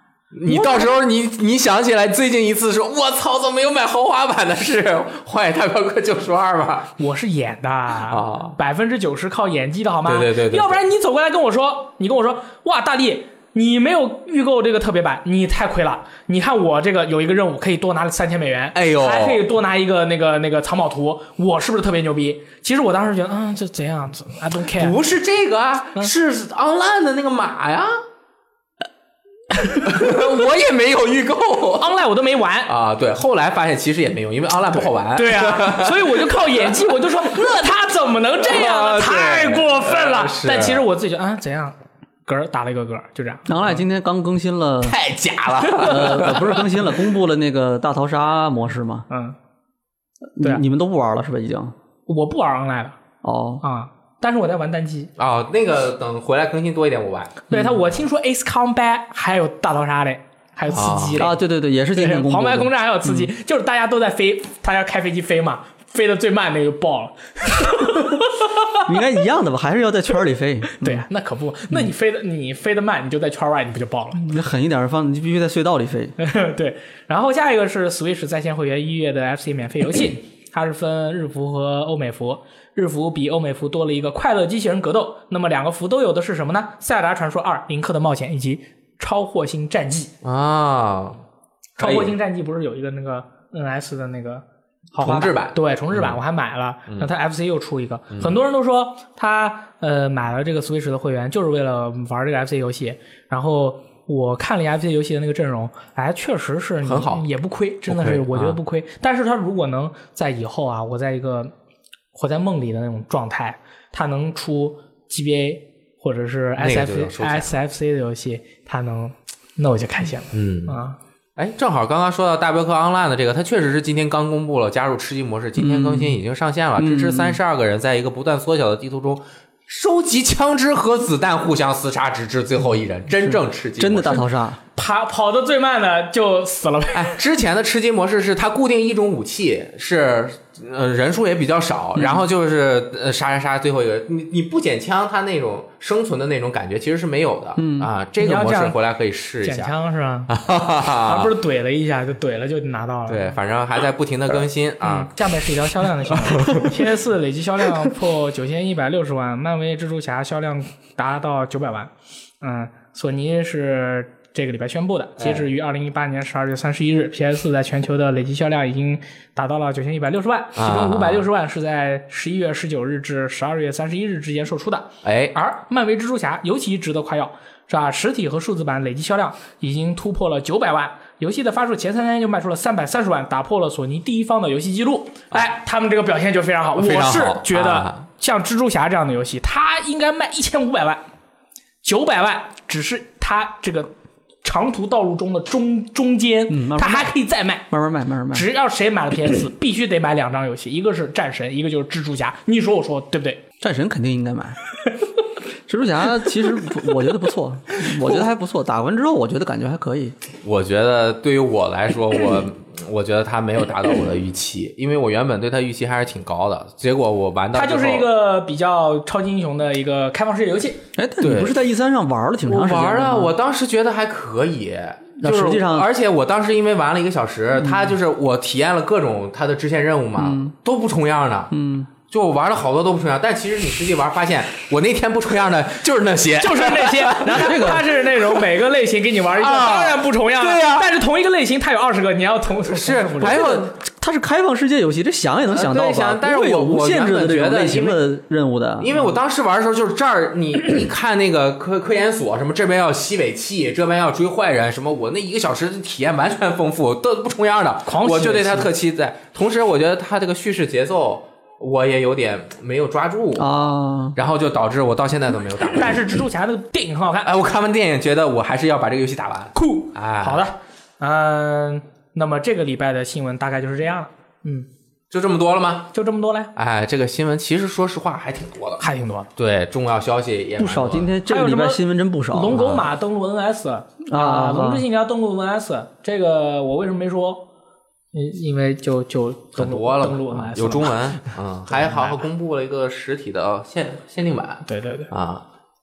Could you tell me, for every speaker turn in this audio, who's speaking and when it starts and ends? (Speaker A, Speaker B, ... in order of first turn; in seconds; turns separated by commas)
Speaker A: 0.3-6.9, Speaker B: 0.5-0.9, Speaker B: 7.0-25.0, Speaker A: 8.1-8.6, Speaker A: 10.0-10.8, Speaker A: 18.7-19.4, Speaker A: 24.8-27.9, Speaker A: 29.7-32.0, Speaker B: 31.8-32.7, Speaker A: 32.7-37.5, Speaker B: 35.1-43.5, Speaker A: 38.4-40.8, Speaker C: 43.5-45.0, Speaker A: 44.8-46.9, Speaker B: 45.7-46.2, Speaker C: 45.8-49.0, Speaker B: 49.1-49.4, Speaker C: 50.4-51.7, Speaker B: 52.1-53.0, Speaker C: 53.2-53.6, Speaker B: 53.6-55.1, Speaker A: 55.2-57.5, Speaker B: 57.5-61.3, Speaker C: 57.5-57.8, Speaker A: 60.7-61.3, Speaker C: 61.1-63.3, Speaker B: 61.9-68.8, Speaker C: 68.8-71.0, Speaker B: 70.8-74.2, Speaker C: 74.2-76.1, Speaker B: 76.2-90.1, Speaker A: 90.2-91.2, Speaker B: 91.8-111.5, Speaker A: 91.8-92.1, Speaker A: 95.0-96.2, Speaker A: 98.1-98.4, Speaker A: 106.8-107.2, Speaker A: 107.9-108.6, Speaker B: 112.1-121.0, Speaker A: 116.6-117.5, Speaker A: 120.3-120.8, Speaker A: 121.4-134.2, Speaker C: 125.6-126.2, Speaker C: 126.8-127.4, Speaker C: 133.2-134.6, Speaker B: 134.8-137.2, Speaker A: 136.9-149.7, Speaker C: 141.9-142.2, Speaker C: 147.6-147.9, Speaker B: 148.2-148.8, Speaker B: 149.4-150.3, Speaker A: 150.3-151.3, Speaker B: 151.0-153.3, Speaker A: 153.1-155.1, Speaker B: 154.8-191.0, Speaker A: 156.1-156.7, Speaker A: 165.2-165.4, Speaker A: 170.6-171.3, Speaker A: 175.0-175.3, Speaker A: 186.8-188.1, Speaker B: 191.8-197.7, Speaker C: 196.5-197.1, Speaker C: 197.7-198.5, Speaker B: 198.3-203.4, Speaker C: 203.6-204.6, Speaker C: 205.7-210.2, Speaker A: 210.4-218.1, Speaker B: 217.5-220.8, Speaker C: 220.9-223.3, Speaker A: 221.2-221.6, Speaker A: 222.5-231.5, Speaker C: 225.2-225.9, Speaker C: 227.6-227.9, Speaker C: 230.2-230.5, Speaker C: 231.5-231.9, Speaker A: 232.1-238.4, Speaker B: 236.4-243.7, Speaker C: 237.3-237.8, Speaker A: 239.3-240.9, Speaker A: 242.6-243.7, Speaker C: 243.2-249.0, Speaker A: 245.5-248.0, Speaker A: 248.8-263.5, Speaker B: 257.9-258.7, Speaker C: 263.3-264.1, Speaker A: 264.1-266.1, Speaker B: 265.7-267.3, Speaker A: 267.2-270.5, Speaker B: 269.5-274.7, Speaker A: 275.1-275.9, Speaker B: 275.9-276.5, Speaker A: 276.5-278.8, Speaker B: 278.8-279.3, Speaker A: 279.4-281.1, Speaker C: 280.6-282.9, Speaker B: 281.3-287.4, Speaker C: 284.1-284.8, Speaker B: 288.1-291.1, Speaker A: 289.6-295.4, Speaker B: 291.7-292.1, Speaker B: 294.6-295.1